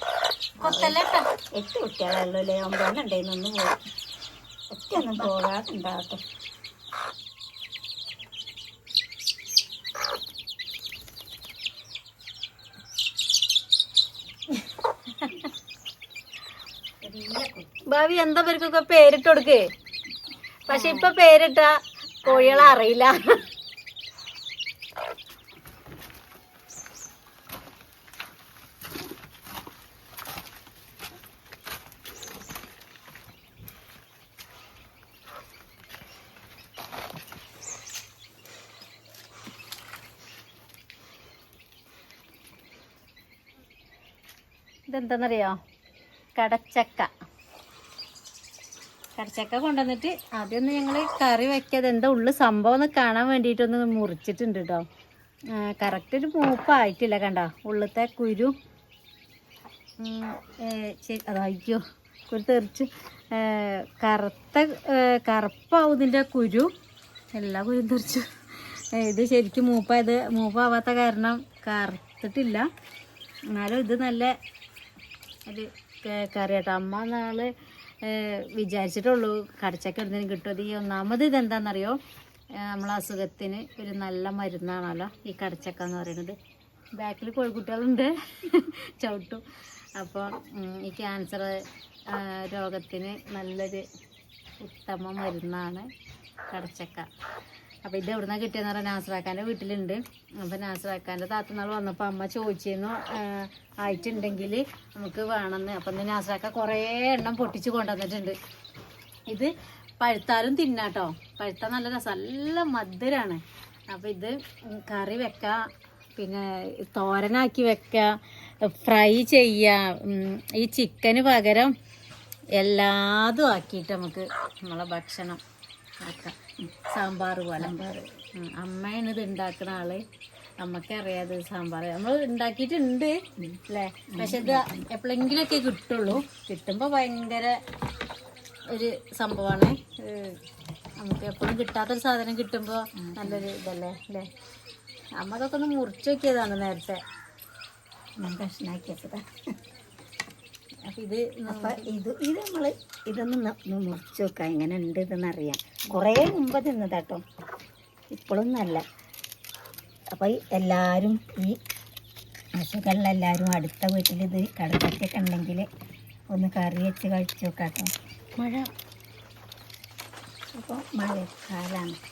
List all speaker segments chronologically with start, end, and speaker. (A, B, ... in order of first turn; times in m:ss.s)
0:00.6-0:01.0 A
0:00.6-0:01.2 B
0:01.6-0:03.8 A
0:04.7-0:06.2 A
0:17.0-0:17.7 A
0:17.9-0:19.6 B
0:20.7-0:23.2 B
0:20.7-0:21.1 A
0:22.2-0:22.8 A
0:44.9-0:45.6 B
0:46.4-0:47.1 B
0:49.2-0:54.8 B
0:55.5-0:58.5 B
1:00.0-1:06.7 B
1:07.3-1:12.7 B
1:13.5-1:14.3 B
1:15.5-1:17.5 B
1:18.0-1:22.0 B
1:22.6-1:26.4 B
1:26.9-1:29.4 B
1:30.0-1:33.8 B
1:34.6-1:35.9 B
1:36.5-1:37.1 B
1:37.8-1:48.4 B
1:49.3-1:55.6 B
1:56.2-2:01.7 B
2:02.5-2:05.4 B
2:06.0-2:06.4 B
2:06.9-2:07.8 B
2:07.6-2:08.0 A
2:08.4-2:10.0 B
2:10.6-2:13.2 B
2:13.7-2:17.6 B
2:14.1-2:14.8 A
2:18.7-2:20.4 B
2:21.0-2:24.3 B
2:23.0-2:23.4 A
2:25.2-2:27.0 B
2:28.2-2:29.2 A
2:30.9-2:31.9 B
2:31.5-2:37.2 A
2:38.1-2:38.8 A
2:40.1-2:41.6 A
2:42.6-2:45.7 A
2:46.3-2:47.9 A
2:48.4-2:48.7 B
2:50.5-2:52.0 A